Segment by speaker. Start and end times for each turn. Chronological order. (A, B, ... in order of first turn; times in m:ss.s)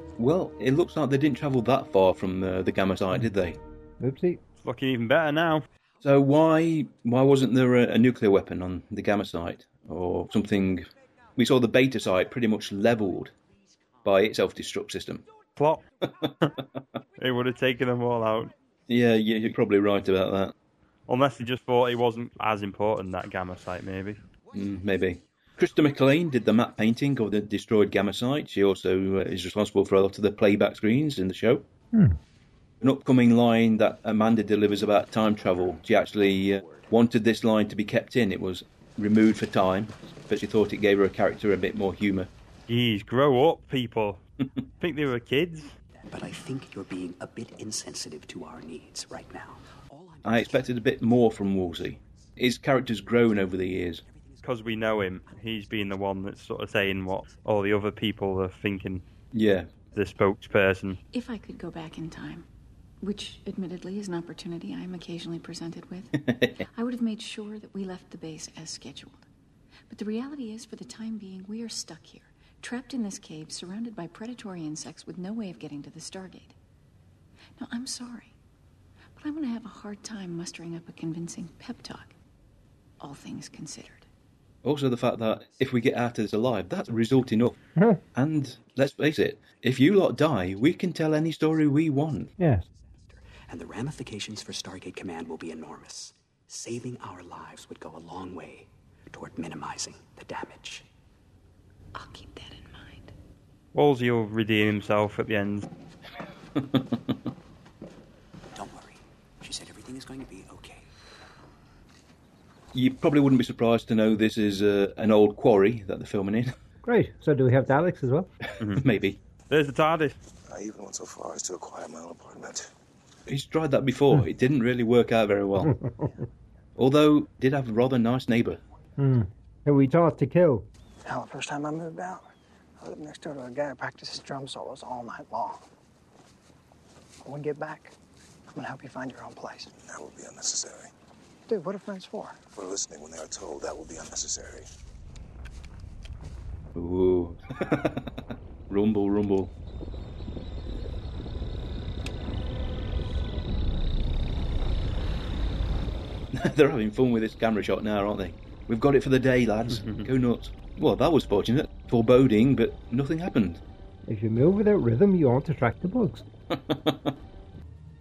0:00.2-0:03.6 A
0:04.0-0:04.4 B
0:04.6-0:05.6 C
0:06.0-0:13.3 A
0:14.0-0:15.2 A
0:15.6-0:15.8 C
0:17.2-0:18.5 C
0:18.9-0:20.5 A
0:21.1-0:24.2 C
0:24.5-0:31.6 A
0:31.9-0:32.2 B
0:32.8-0:42.3 A
0:42.7-0:44.2 C
0:44.8-0:45.7 C
0:46.1-0:50.7 D
0:50.2-0:54.0 A
0:54.0-0:54.4 D
0:54.4-0:59.0 C
0:59.3-0:59.7 A
0:59.9-1:01.0 C
1:01.1-1:02.5 E
1:03.0-1:06.1 E
1:06.2-1:06.6 A
1:06.7-1:09.2 E
1:09.9-1:16.5 E
1:17.6-1:18.3 E
1:19.2-1:22.1 E
1:23.0-1:24.1 E
1:24.6-1:27.6 A
1:27.8-1:28.0 B
1:28.1-1:32.3 A
1:32.4-1:32.6 B
1:33.0-1:40.8 D
1:41.9-1:43.1 E
1:43.7-1:45.6 C
1:46.6-1:47.0 A
1:48.5-1:50.9 D
1:52.7-1:56.5 A
1:56.8-1:58.3 B
1:58.7-1:59.2 A
1:59.5-2:00.2 C
2:00.5-2:02.7 F
2:03.3-2:05.7 A
2:06.8-2:08.6 A
2:09.0-2:10.7 B
2:11.0-2:12.2 G
2:12.8-2:15.6 G
2:17.2-2:17.9 G
2:18.5-2:19.7 G
2:19.8-2:20.9 F
2:21.5-2:22.4 G
2:22.5-2:24.6 F
2:26.7-2:28.1 A
2:28.7-2:29.5 A
2:36.3-2:43.6 A
2:39.7-2:40.0 C
2:44.1-2:46.2 B
2:46.5-2:47.1 A